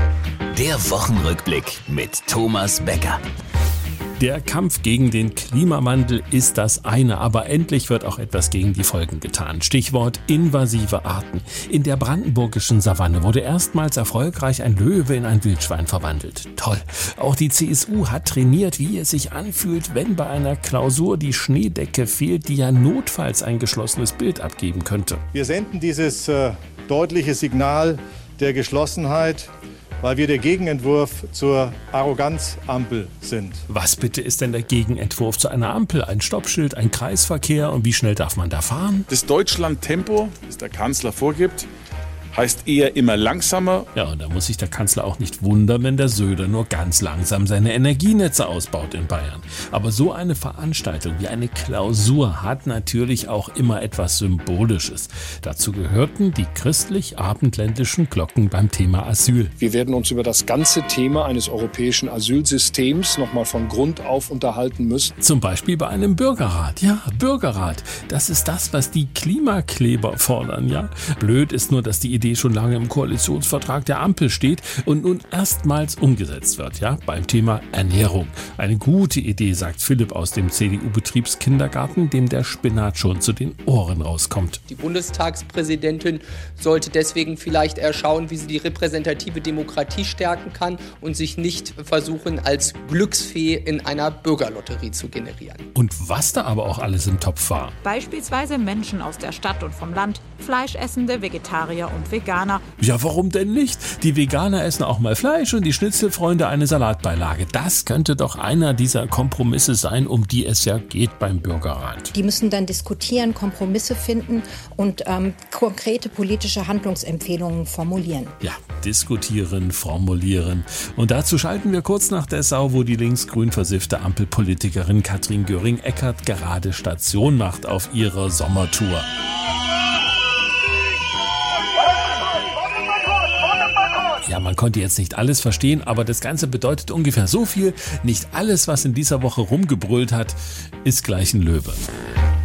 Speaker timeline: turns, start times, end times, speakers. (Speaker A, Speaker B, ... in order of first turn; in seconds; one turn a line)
Speaker A: 0.5-3.2
Speaker B: 4.2-25.2
Speaker C: 25.3-33.6
Speaker B: 33.7-39.1
Speaker D: 39.1-41.6
Speaker D: 42.4-43.8
Speaker B: 43.9-59.5
Speaker E: 59.6-65.1
Speaker B: 65.2-84.6
Speaker F: 84.7-95.6
Speaker B: 95.7-97.7
Speaker G: 97.8-102.6
Speaker B: 102.8-112.1
Speaker H: 112.1-118.3
Speaker B: 118.4-129.1
Speaker B: 134.2-141.8